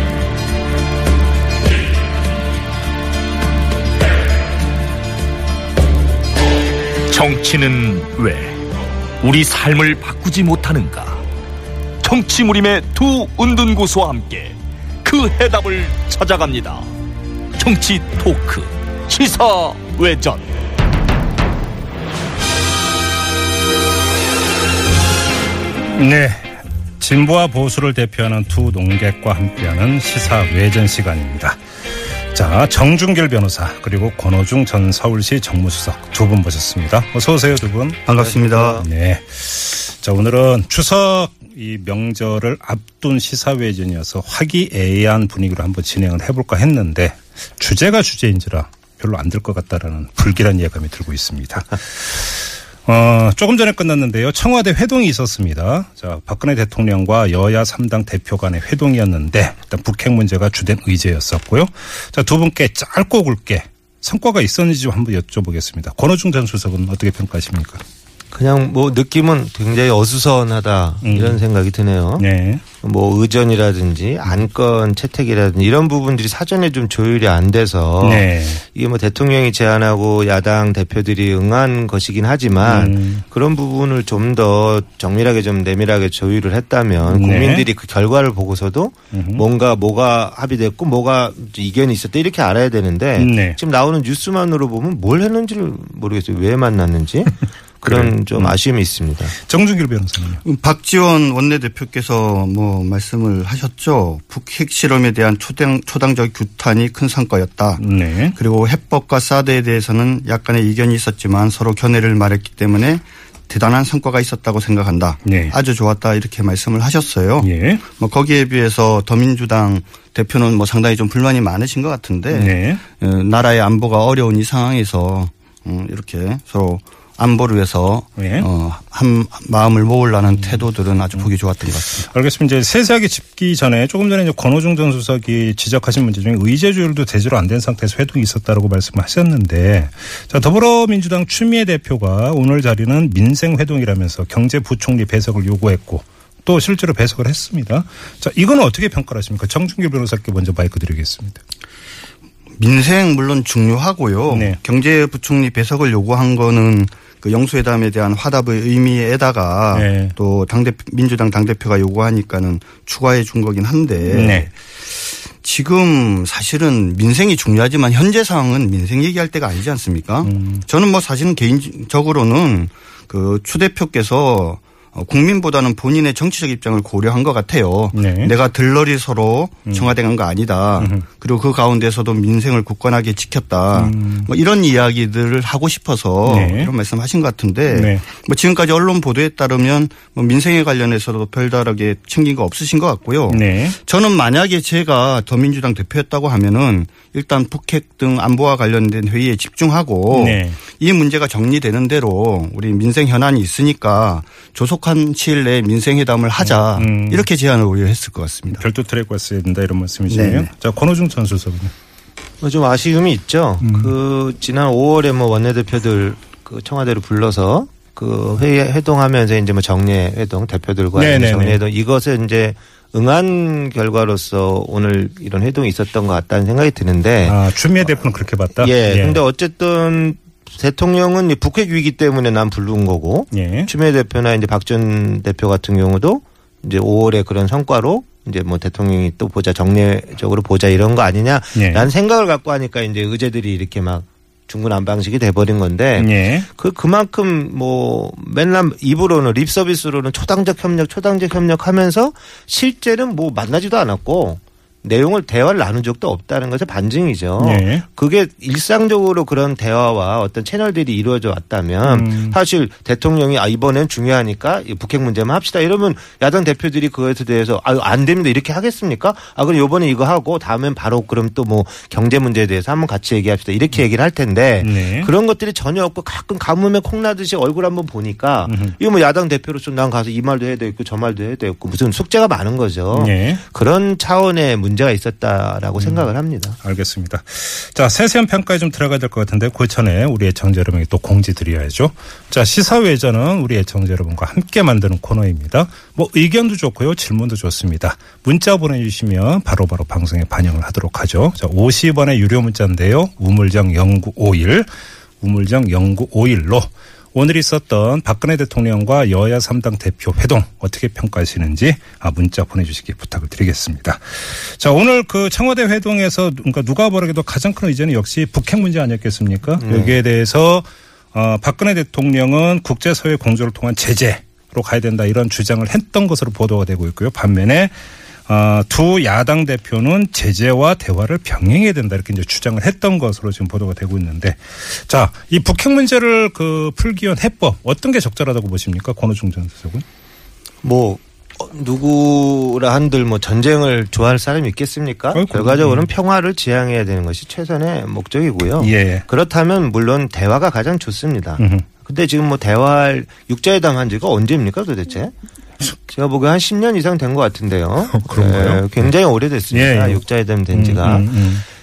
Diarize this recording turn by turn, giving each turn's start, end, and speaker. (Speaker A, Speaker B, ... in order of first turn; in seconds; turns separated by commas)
Speaker A: 7.1-8.6, Speaker A: 9.2-11.2, Speaker A: 12.0-16.9, Speaker A: 17.6-20.5, Speaker B: 25.9-31.6, Speaker B: 32.3-38.0, Speaker C: 38.0-38.8, Speaker D: 38.2-38.8, Speaker B: 38.8-67.8, Speaker D: 68.3-72.2, Speaker B: 71.0-71.4, Speaker B: 72.2-72.6, Speaker D: 72.8-99.3, Speaker B: 78.0-78.6, Speaker B: 82.7-83.2, Speaker B: 87.1-87.7, Speaker B: 89.1-89.4, Speaker B: 93.2-93.6, Speaker B: 97.8-98.5, Speaker B: 99.3-100.4, Speaker C: 100.4-107.8, Speaker B: 107.8-108.3, Speaker C: 108.3-132.1, Speaker B: 115.2-115.5, Speaker B: 117.4-117.8, Speaker B: 122.3-122.8, Speaker B: 128.2-128.5, Speaker B: 132.1-151.4, Speaker C: 152.6-208.6, Speaker B: 154.3-154.6, Speaker B: 159.7-160.1, Speaker B: 164.1-164.5, Speaker B: 170.2-170.6, Speaker B: 177.9-178.3, Speaker B: 180.8-181.0, Speaker B: 183.7-184.3, Speaker B: 186.2-186.7, Speaker B: 187.7-188.0, Speaker B: 193.3-193.8, Speaker B: 200.1-200.6, Speaker B: 206.4-207.2, Speaker B: 208.6-211.7, Speaker C: 210.1-210.5, Speaker D: 212.4-227.9, Speaker B: 213.6-213.9, Speaker B: 220.9-221.6, Speaker B: 227.2-229.2, Speaker D: 228.6-286.6, Speaker B: 233.3-233.7, Speaker B: 241.5-241.8, Speaker B: 246.0-246.5, Speaker B: 257.4-257.8, Speaker B: 261.8-262.4, Speaker B: 274.6-275.1, Speaker B: 278.5-278.7, Speaker B: 282.9-283.4, Speaker B: 285.8-286.0, Speaker B: 286.6-304.7, Speaker B: 305.2-327.7, Speaker D: 319.6-320.0, Speaker B: 328.3-339.8, Speaker D: 340.6-355.1, Speaker B: 345.1-345.9, Speaker B: 348.6-349.0, Speaker B: 351.4-351.6, Speaker D: 355.9-361.2, Speaker B: 357.9-358.9, Speaker B: 359.5-361.4